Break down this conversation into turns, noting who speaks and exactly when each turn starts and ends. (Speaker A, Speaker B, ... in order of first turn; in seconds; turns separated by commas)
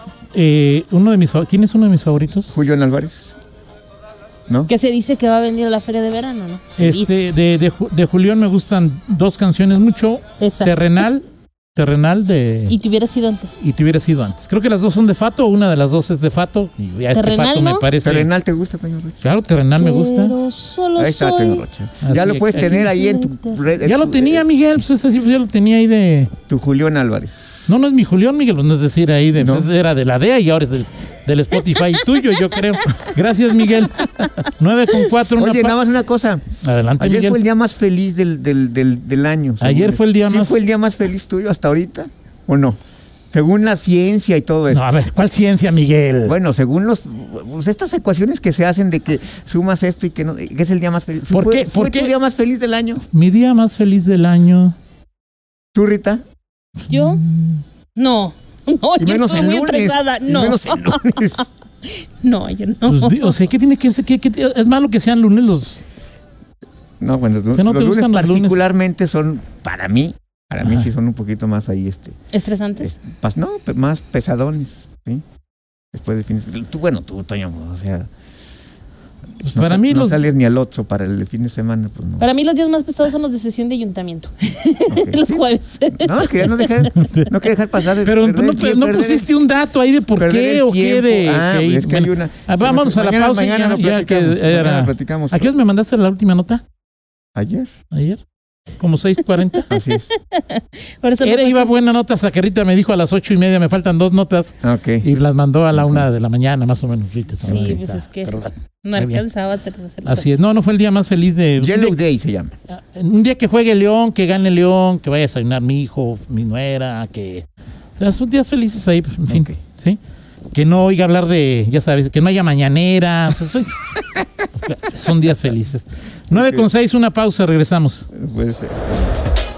Speaker A: 0.3-2.5, Speaker B: 2.5-3.4, Speaker C: 4.7-7.2, Speaker A: 6.8-12.8, Speaker C: 10.4-10.8, Speaker C: 12.7-13.6, Speaker A: 13.6-18.3, Speaker C: 17.1-17.9, Speaker B: 18.0-19.3, Speaker A: 19.2-20.4, Speaker C: 19.8-21.6, Speaker B: 21.0-24.5, Speaker A: 22.0-22.9, Speaker C: 22.7-23.6, Speaker A: 23.8-26.3, Speaker B: 26.5-27.7, Speaker A: 27.7-35.8, Speaker B: 29.4-29.7, Speaker B: 35.4-36.5, Speaker A: 36.6-37.4, Speaker B: 37.0-42.8, Speaker A: 39.6-40.6, Speaker B: 43.3-44.9, Speaker A: 44.7-46.4, Speaker B: 46.2-53.0, Speaker A: 51.3-52.1, Speaker A: 53.1-54.8, Speaker B: 55.7-56.2, Speaker A: 56.9-57.6, Speaker C: 56.9-57.2, Speaker C: 58.0-63.4, Speaker B: 59.0-61.5, Speaker A: 62.9-65.8, Speaker B: 67.0-72.2, Speaker A: 67.5-68.6, Speaker A: 70.6-70.9, Speaker C: 72.3-72.9, Speaker B: 72.8-75.2, Speaker B: 75.9-78.1, Speaker A: 79.4-80.2, Speaker B: 79.5-82.3, Speaker C: 82.2-86.9, Speaker B: 84.9-89.3, Speaker A: 86.9-87.3, Speaker A: 88.0-96.6, Speaker B: 90.2-95.5, Speaker B: 97.3-97.7, Speaker A: 97.9-98.2, Speaker A: 98.8-99.7, Speaker B: 99.7-100.1, Speaker C: 100.1-101.7, Speaker A: 101.2-109.2, Speaker B: 104.6-105.1, Speaker B: 105.7-106.1, Speaker C: 107.4-110.4, Speaker B: 107.4-107.8, Speaker A: 110.0-112.0, Speaker B: 111.6-112.5, Speaker A: 112.8-120.0, Speaker B: 119.3-119.6, Speaker A: 120.5-123.8, Speaker A: 124.6-128.1, Speaker B: 126.3-126.7, Speaker B: 128.1-129.2